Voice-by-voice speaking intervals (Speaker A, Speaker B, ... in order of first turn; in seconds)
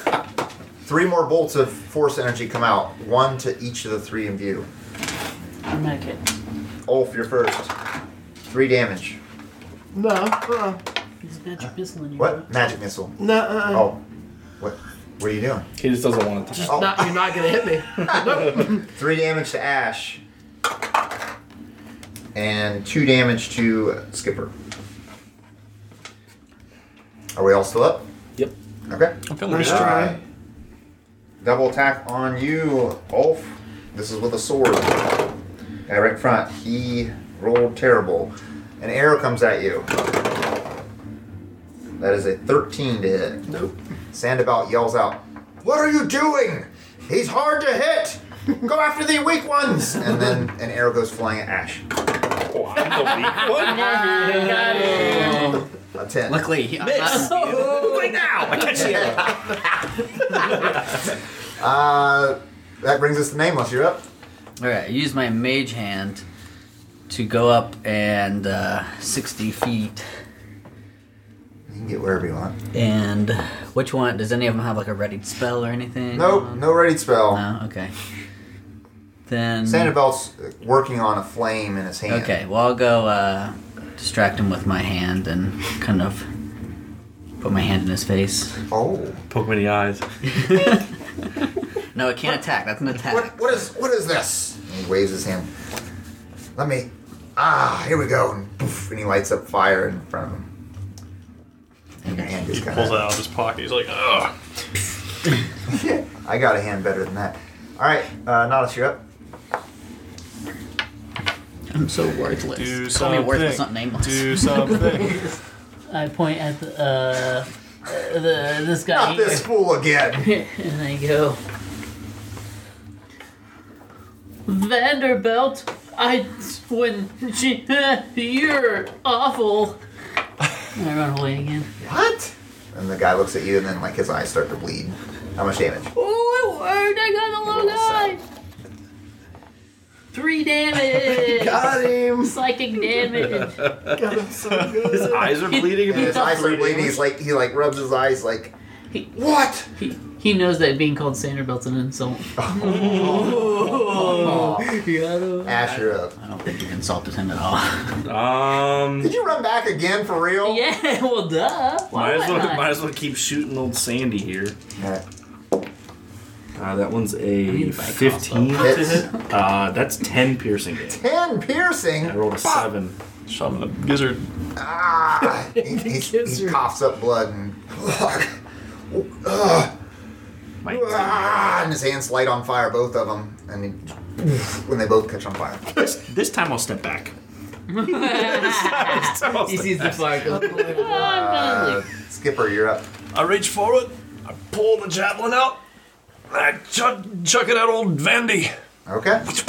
Speaker A: 0.8-4.7, 6.8-7.7, 8.4-9.2, 11.6-14.0, 14.6-15.7, 16.7-17.1, 18.0-20.2, 22.3-24.5, 27.3-28.1, 28.9-30.2, 31.4-35.3, 35.9-40.0, 42.0-43.5, 44.1-51.9, 55.9-56.5, 58.5-59.6, 60.3-60.7, 61.6-64.0, 71.7-72.6, 76.1-77.4, 79.6-82.4, 88.7-89.2, 92.9-95.5, 96.5-100.5, 102.0-103.1, 105.7-109.0, 118.9-120.3, 131.8-135.9, 137.4-138.2, 145.8-148.5, 149.1-149.7, 152.3-154.7, 155.4-156.1, 159.0-160.6, 164.8-165.0, 168.6-169.1, 170.9-172.7, 174.6-178.3, 178.9-179.7, 180.6-185.8, 190.8-192.8, 198.8-199.2
Speaker B: 5.7-6.2, 11.2-12.5, 53.4-55.6, 57.0-58.5, 115.9-119.5, 120.2-121.4, 124.5-129.8, 130.7-131.7, 135.9-138.2, 140.1-143.6, 145.3-146.8, 149.8-155.6, 160.4-162.7, 167.4-169.1, 187.7-191.8
Speaker C: 9.9-10.8, 13.2-13.9, 16.5-18.8, 29.5-30.2, 141.0-142.4, 143.8-145.6, 175.6-176.4, 190.3-191.1
Speaker D: 15.8-17.1, 18.0-18.4, 52.5-55.4, 56.8-59.4, 60.4-61.0, 89.3-90.6, 143.4-144.0, 144.6-146.9, 152.6-153.5, 158.0-159.1, 161.9-164.6, 166.6-171.0, 172.0-173.0, 180.6-181.7, 185.7-187.1, 187.9-190.4
Speaker E: 29.3-30.1, 102.5-104.3, 112.5-115.2, 173.3-174.3, 193.1-195.6, 196.3-198.5
Speaker F: 54.4-55.6, 56.2-58.1, 64.6-66.2, 67.1-70.0, 72.7-76.7, 77.3-77.9, 79.3-79.9, 82.1-86.2, 87.4-88.6, 90.3-90.8, 91.9-93.7, 102.0-102.4, 111.7-114.9, 155.6-158.0